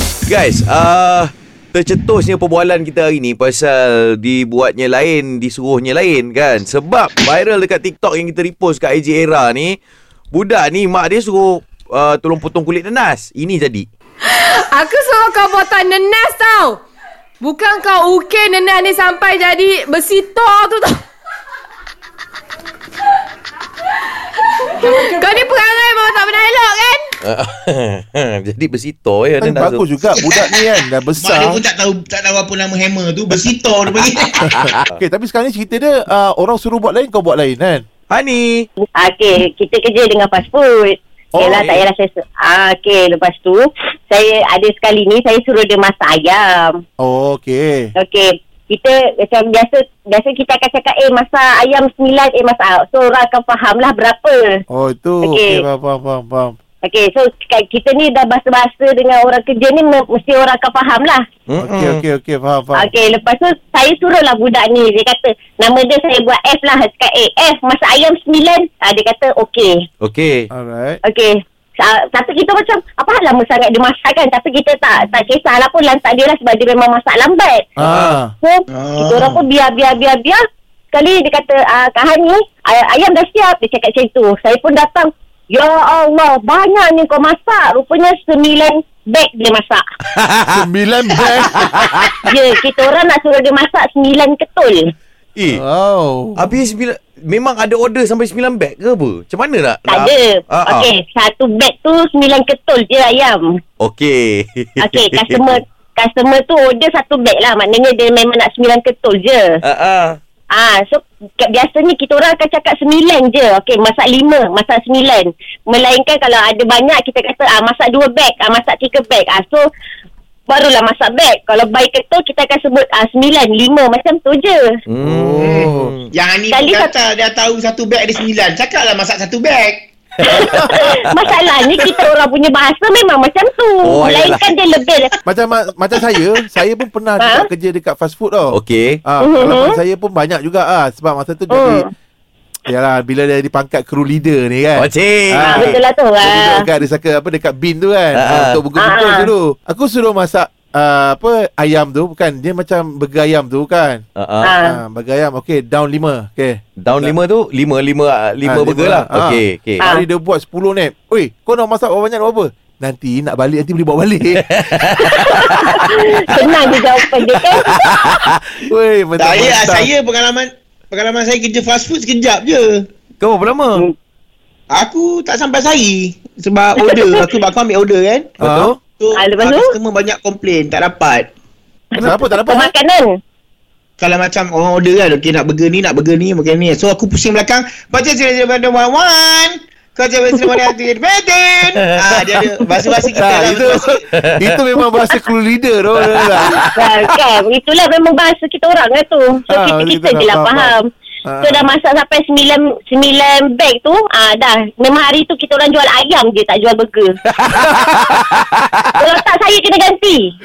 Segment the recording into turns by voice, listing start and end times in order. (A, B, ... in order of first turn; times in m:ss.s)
0:00.3-0:09.8 A
0:10.3-0:13.9 A
0:14.3-0:16.8 B
0:17.4-0:21.0 B
0:24.8-0:27.1 B
0:27.2-0:29.9 A
0:29.4-0:31.6 C
0:30.0-0:34.5 D
0:34.5-0:37.8 C
0:34.5-0:34.8 A
0:38.1-0:38.7 A
0:39.0-0:46.8 E
0:41.3-0:41.8 C
0:47.0-0:47.9 C
0:48.0-0:54.6 E
0:54.7-0:56.6 C
0:55.2-0:55.6 E
0:56.8-1:01.2 E
1:01.5-1:02.0 A
1:01.6-1:02.9 C
1:02.8-1:09.8 E
1:10.0-1:10.5 A
1:10.5-1:11.0 C
1:11.1-1:17.7 E
1:17.8-1:18.3 C
1:17.8-1:18.2 A
1:18.4-1:20.4 E
1:18.7-1:19.4 D
1:20.9-1:29.8 E
1:30.2-1:30.4 A
1:30.5-1:32.3 C
1:31.2-1:32.3 A
1:32.3-1:34.9 E
1:35.4-1:35.6 A
1:35.5-1:36.5 C
1:36.4-1:40.9 A
1:39.9-1:43.6 E
1:43.8-1:45.6 A
1:44.8-1:49.6 E
1:49.6-1:50.2 A
1:50.5-1:59.6 E
2:00.5-2:04.7 E
2:04.9-2:06.1 A
2:05.0-2:05.9 C
2:05.4-2:09.8 D
2:06.5-2:06.9 E
2:10.2-2:11.3 A
2:10.3-2:15.1 E
2:13.8-2:14.5 A
2:15.3-2:21.9 C
2:17.2-2:17.5 E
2:18.5-2:19.0 A
2:19.2-2:19.8 E
2:21.5-2:21.9 E
2:22.7-2:34.0 C
2:24.8-2:25.8 A
2:25.5-2:26.6 E
2:28.2-2:28.6 A
2:28.8-2:29.3 E
2:34.2-2:34.5 A
2:34.4-2:34.8 E
2:34.6-2:37.2 C
2:36.8-2:39.8 A
2:38.4-2:44.4 C
2:44.4-2:46.8 A
2:45.0-2:47.8 E
2:47.6-2:48.3 A
2:48.7-2:49.9 C
2:49.2-2:52.9 D
2:53.2-2:53.8 A
2:54.7-2:58.3 D
2:56.9-2:57.2 E
2:58.4-2:58.7 C
2:58.4-2:58.8 A
2:59.0-3:01.3 D
2:59.2-2:59.7 E
3:02.0-3:03.2 E
3:02.0-3:02.7 C
3:04.0-3:14.0 D
3:13.2-3:16.6 C
3:16.1-3:16.7 A
3:16.8-3:20.8 E
3:19.5-3:21.7 C
3:21.4-3:27.1 E
3:27.3-3:28.9 A
3:29.0-3:30.3 E